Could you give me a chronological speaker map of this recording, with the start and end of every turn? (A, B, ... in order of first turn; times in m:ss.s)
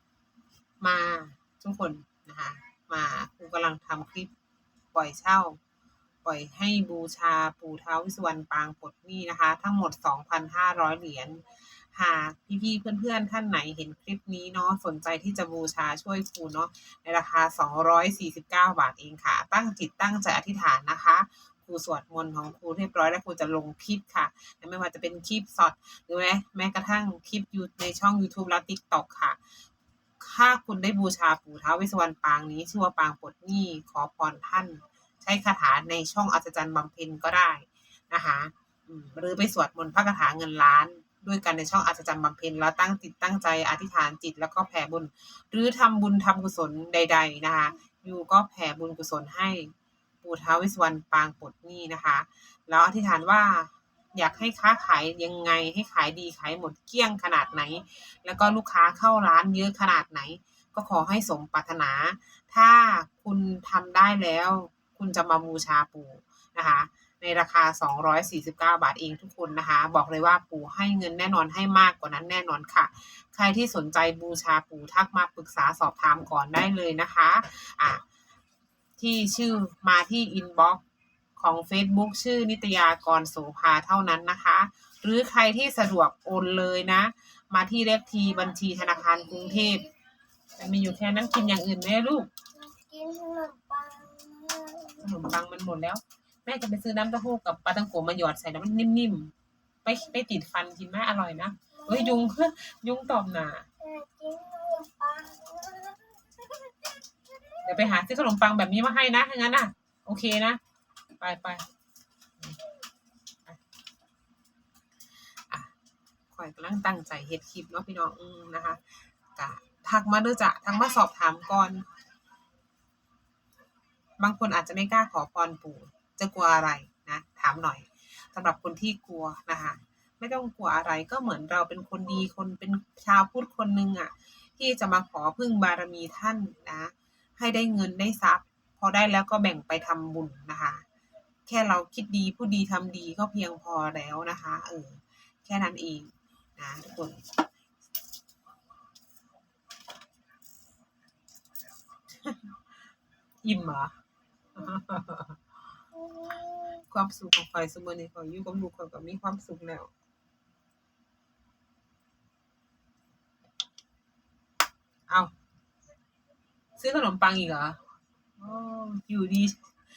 0:00.8-0:04.3 A
0:04.9-0:05.6 A
0:06.2-0:29.4 A
0:30.2-1:18.0 A
1:19.0-1:20.8 A
1:21.4-1:29.9 A
1:30.6-1:32.3 A
1:32.6-1:35.0 B
1:35.0-1:39.3 A
1:39.8-1:43.7 A
1:43.8-1:46.9 B
1:47.6-1:50.6 A
1:51.2-1:51.6 A
1:56.3-1:58.8 A
1:59.3-2:01.9 A
2:04.2-2:20.8 A
2:21.4-2:27.3 A
2:32.2-2:32.5 A
2:33.4-2:33.9 A
2:34.5-2:35.4 A
2:36.0-2:36.8 B
2:36.8-2:39.9 A
2:45.1-2:45.3 A
2:46.8-2:47.8 A
2:48.4-2:49.6 A